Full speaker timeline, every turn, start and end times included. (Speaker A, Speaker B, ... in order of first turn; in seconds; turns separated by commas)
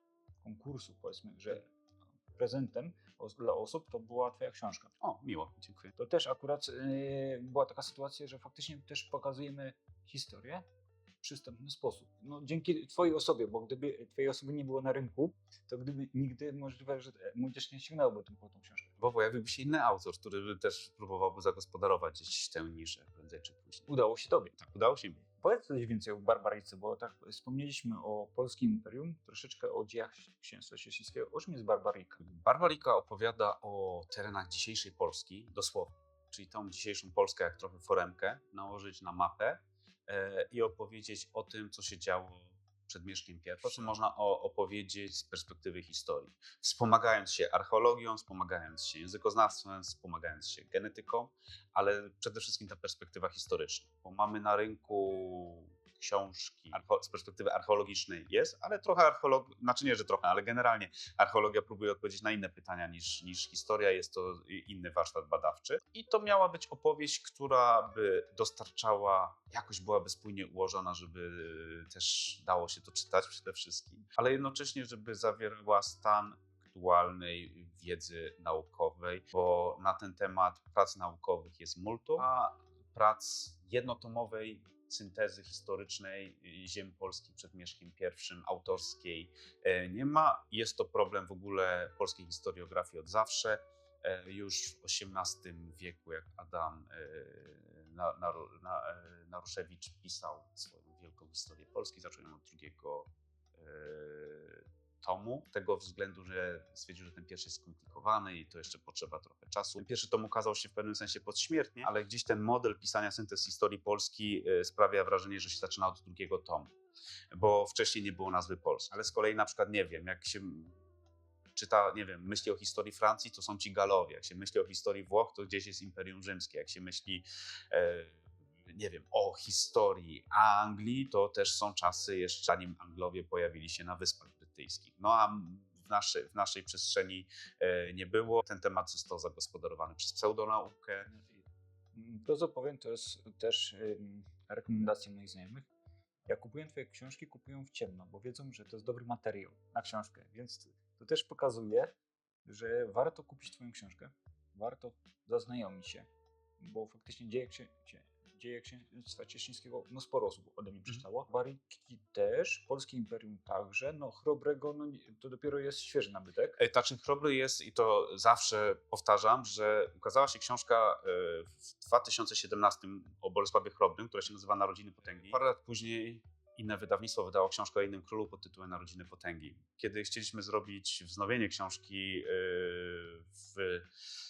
Speaker A: 0.4-1.7, Speaker A: 2.3-4.9, Speaker B: 5.0-5.9, Speaker A: 6.0-10.7, Speaker A: 11.2-19.0, Speaker B: 19.0-23.9, Speaker A: 23.9-24.5, Speaker B: 24.5-25.2, Speaker A: 25.4-32.2, Speaker B: 32.2-116.7, Speaker B: 117.3-120.8, Speaker B: 121.5-141.1, Speaker A: 141.1-141.3, Speaker A: 141.9-145.7, Speaker A: 146.3-166.6, Speaker B: 166.6-183.9